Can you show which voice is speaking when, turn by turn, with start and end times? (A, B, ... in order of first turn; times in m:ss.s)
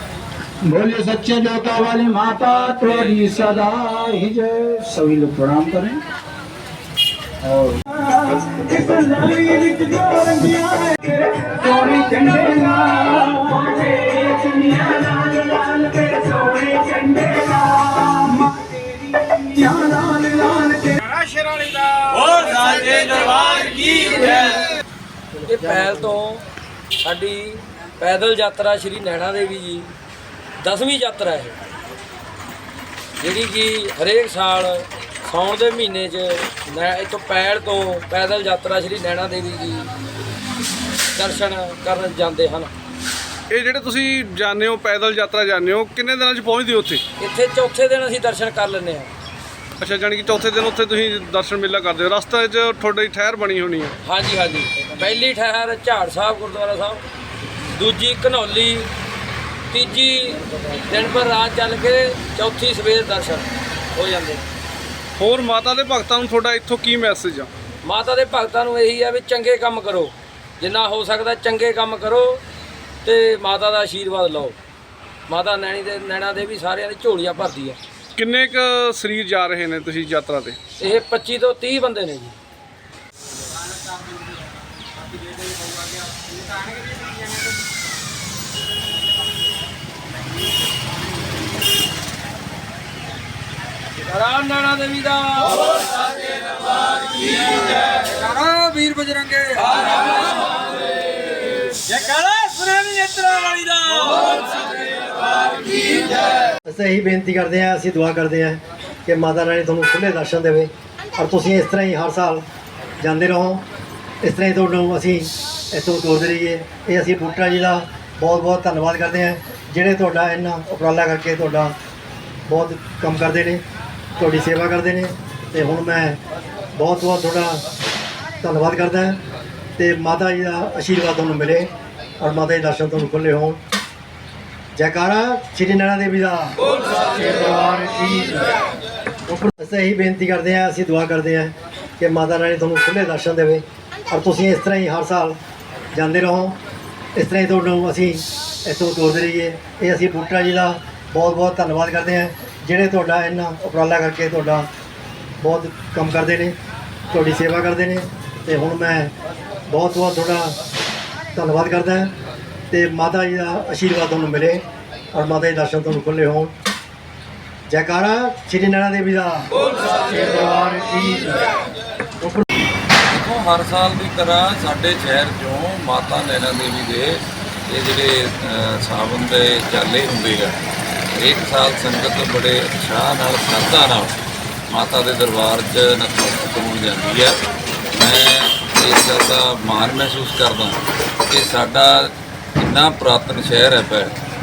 0:00.6-0:06.0 A
0:07.4-0:08.0 A
0:08.9-0:09.2 A
0:09.9-0:11.0 A
0:11.6-0:13.0 A
0:22.6-0:24.6 B
0:25.4-0:26.4 B
0:27.0-0:29.9 B
0:30.6-0:31.5 B
0:33.2-0:39.9 B
0:41.1-0:42.7 B
0:43.5-0:47.0 C
0:47.2-0:49.1 B
0:49.8-0:53.9 C
0:54.0-0:57.0 B
0:57.7-0:58.9 B
0:59.7-1:04.4 B
1:05.2-1:07.5 C
1:07.8-1:12.4 B
1:13.0-1:14.6 B
1:15.3-1:17.8 B
1:18.2-1:20.6 C
1:20.8-1:22.4 B
1:34.0-1:35.9 B
1:37.2-1:40.3 B
1:41.9-1:44.1 B
1:46.6-1:52.4 D
1:53.0-1:53.6 D
1:54.2-2:01.7 D
2:02.4-2:03.6 D
2:04.2-2:06.2 D
2:06.7-2:07.6 D
2:08.4-2:09.2 D
2:09.8-2:13.6 D
2:14.8-2:18.4 D
2:19.3-2:25.4 D
2:25.9-2:26.6 D
2:27.1-2:34.7 D
2:35.4-2:36.6 D
2:37.1-2:39.1 D
2:39.7-2:40.6 D
2:41.3-2:42.1 D
2:42.7-2:46.5 D
2:47.7-2:51.4 D
2:53.1-3:00.6 E
3:01.1-3:04.2 E
3:04.7-3:07.4 E
3:07.9-3:14.2 E